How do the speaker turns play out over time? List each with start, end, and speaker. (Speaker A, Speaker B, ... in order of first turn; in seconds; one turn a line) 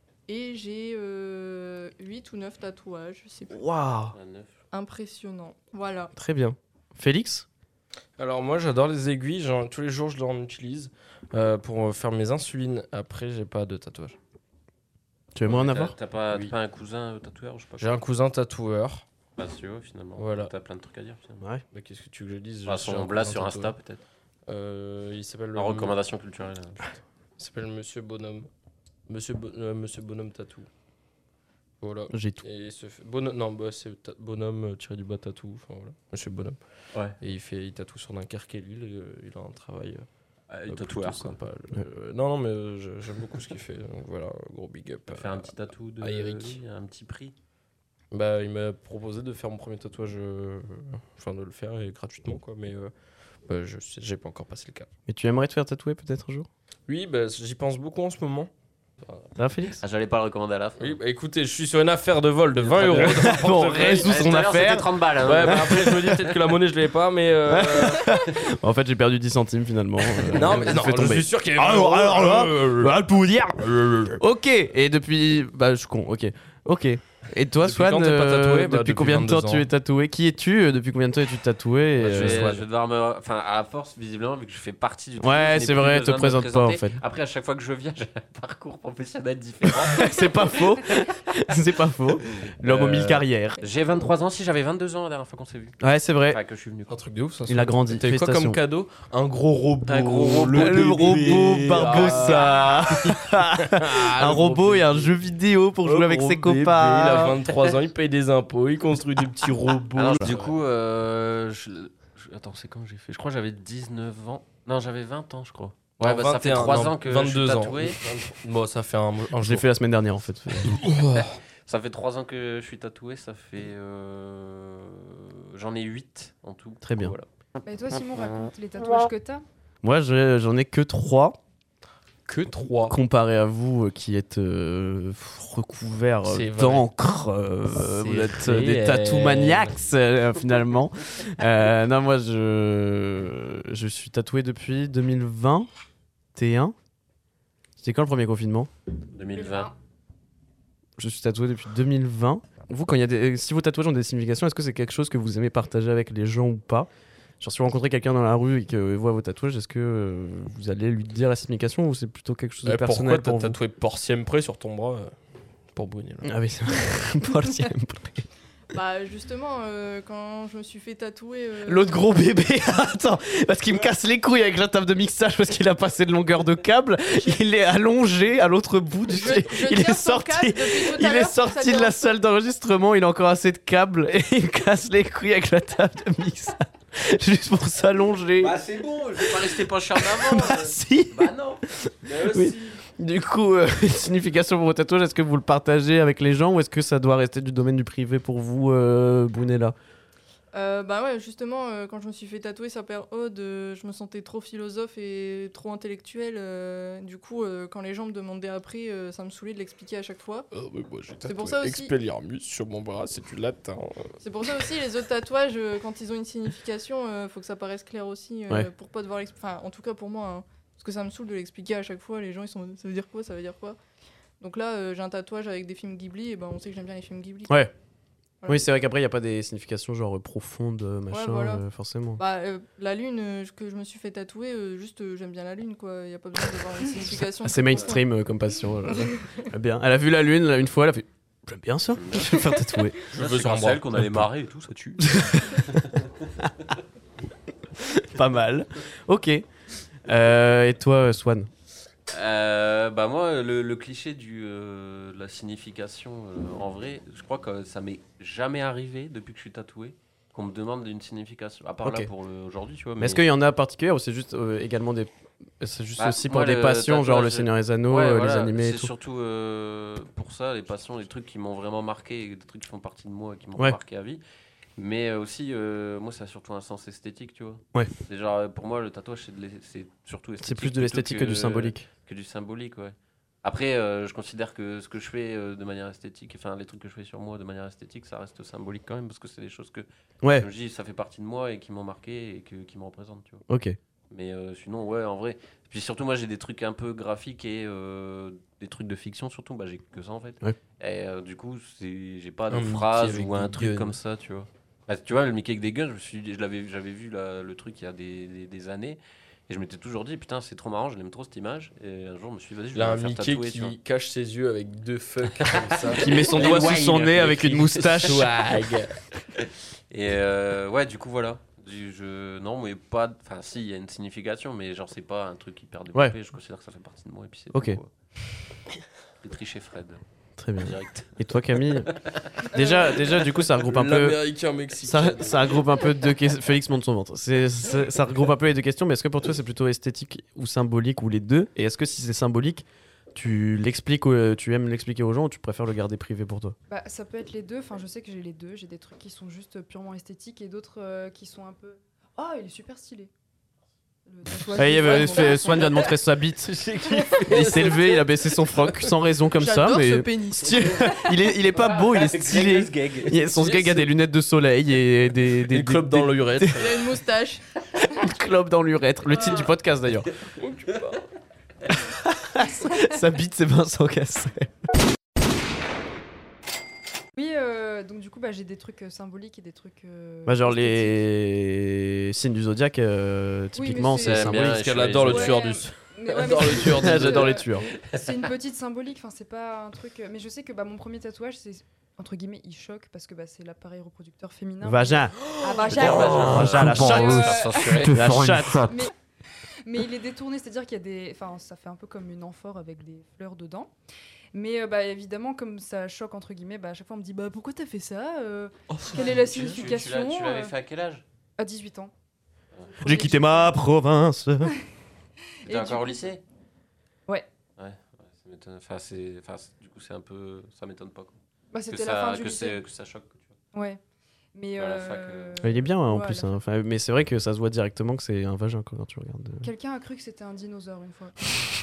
Speaker A: 0.3-3.6
Speaker B: 3.5-4.1
Speaker C: 4.1-4.5
Speaker A: 4.7-6.1
Speaker B: 6.1-7.5
Speaker D: 8.2-14.2
Speaker B: 15.3-15.9
Speaker C: 15.4-18.0
Speaker D: 17.8-19.0
Speaker C: 19.4-21.4
Speaker D: 20.2-20.5
Speaker D: 21.7-23.8
Speaker C: 22.6-24.0
Speaker D: 24.5-25.9
Speaker C: 25.5-26.8
Speaker D: 27.4-28.5
Speaker D: 29.1-30.7
Speaker D: 31.8-36.6
Speaker B: 32.1-32.4
Speaker D: 37.2-40.0
Speaker C: 40.5-41.4
Speaker D: 40.7-46.6
Speaker C: 45.1-47.3
Speaker D: 48.1-52.9
Speaker D: 53.4-54.9
Speaker B: 55.1-56.5
Speaker D: 56.9-58.5
Speaker D: 59.0-59.3
Speaker B: 59.4-59.8
Speaker C: 59.8-61.0
Speaker D: 60.8-64.3
Speaker C: 62.6-65.8
Speaker B: 63.0-66.5
Speaker D: 65.2-68.1
Speaker B: 67.5-82.6
Speaker D: 70.2-72.9
Speaker D: 73.6-74.2
Speaker D: 77.6-79.6
Speaker D: 82.0-82.6
Speaker C: 82.0-90.5
Speaker B: 85.2-86.9
Speaker B: 89.8-93.6
Speaker C: 92.2-95.8
Speaker B: 95.8-96.4
Speaker C: 96.3-97.0
Speaker D: 96.9-105.2
Speaker B: 97.5-98.6
Speaker C: 99.9-103.1
Speaker B: 100.5-107.4
Speaker D: 105.8-110.5
Speaker C: 107.5-107.8
Speaker B: 109.9-110.3
Speaker C: 109.9-118.0
Speaker D: 116.0-119.6
Speaker B: 119.3-120.8
Speaker D: 120.6-121.3
Speaker C: 121.2-127.3
Speaker B: 126.8-127.1
Speaker E: 127.6-129.4
Speaker B: 129.8-131.4
Speaker D: 132.2-132.9
Speaker B: 132.8-145.7
Speaker D: 136.2-136.8
Speaker D: 137.8-139.8
Speaker B: 146.3-146.7
Speaker B: 147.8-148.7
Speaker C: 149.1-149.7
Speaker E: 149.3-149.7
Speaker B: 151.0-156.9
Speaker B: 157.4-163.6
Speaker D: 162.6-165.1
Speaker D: 165.7-166.3
Speaker B: 166.2-168.2
Speaker A: 168.7-172.0
Speaker B: 171.7-188.6
Speaker A: 179.1-182.1
Speaker C: 188.4-192.6
Speaker B: 189.2-199.7
Speaker D: 192.1-192.4
Speaker A: 200.5-210.5
Speaker D: 210.5-214.2
Speaker A: 211.2-211.9
Speaker A: 214.2-223.8
Speaker A: 224.4-227.7
Speaker A: 228.4-228.7
Speaker B: 228.5-232.2
Speaker A: 231.1-231.6
Speaker A: 232.2-238.0
Speaker B: 237.1-243.0
Speaker A: 238.9-239.4
Speaker C: 241.9-246.3
Speaker D: 243.1-243.9
Speaker B: 245.0-245.6
Speaker B: 247.8-249.4
Speaker B: 250.1-251.5
Speaker C: 252.1-263.2
Speaker B: 263.0-265.1
Speaker B: 265.6-268.9
Speaker C: 266.0-274.2
Speaker C: 274.8-293.4
Speaker B: 280.4-281.9
Speaker B: 290.2-290.5
Speaker B: 293.5-293.8
Speaker C: 294.1-313.8
Speaker D: 302.5-303.9
Speaker D: 312.7-317.2
Speaker C: 315.4-318.2
Speaker B: 315.9-318.3
Speaker D: 317.9-319.0
Speaker C: 319.3-327.9
Speaker B: 327.5-327.8
Speaker C: 329.2-330.0
Speaker B: 330.4-331.9
Speaker C: 330.6-332.5
Speaker B: 332.4-334.2
Speaker E: 332.5-333.0
Speaker D: 333.5-335.6
Speaker B: 334.8-346.6
Speaker E: 346.7-353.1
Speaker E: 354.1-355.7
Speaker B: 354.5-356.6
Speaker A: 354.5-355.8
Speaker C: 356.7-357.5
Speaker D: 357.1-358.0
Speaker B: 357.2-366.7
Speaker A: 359.3-360.9
Speaker C: 360.4-363.2
Speaker D: 363.3-363.9
Speaker D: 365.4-366.8
Speaker A: 366.6-367.4
Speaker B: 367.9-370.1
Speaker D: 370.4-371.0
Speaker B: 371.7-374.5
Speaker E: 377.1-381.0
Speaker B: 380.2-384.6
Speaker E: 383.5-384.4
Speaker C: 384.0-385.4
Speaker D: 384.4-387.4
Speaker E: 385.0-398.9
Speaker B: 386.5-387.7
Speaker C: 387.7-388.3
Speaker B: 394.6-398.7
Speaker C: 395.6-398.7
Speaker E: 399.6-403.7
Speaker E: 404.3-410.5
Speaker D: 408.7-409.6
Speaker C: 408.9-411.0
Speaker E: 411.4-411.9
Speaker E: 412.7-413.5
Speaker B: 412.8-414.5
Speaker E: 415.4-416.1
Speaker C: 415.4-416.2
Speaker C: 417.6-421.2
Speaker E: 421.5-422.6
Speaker C: 421.7-423.3
Speaker E: 423.5-423.8
Speaker E: 424.3-426.2
Speaker C: 424.6-425.4
Speaker B: 425.4-429.5
Speaker E: 429.4-431.1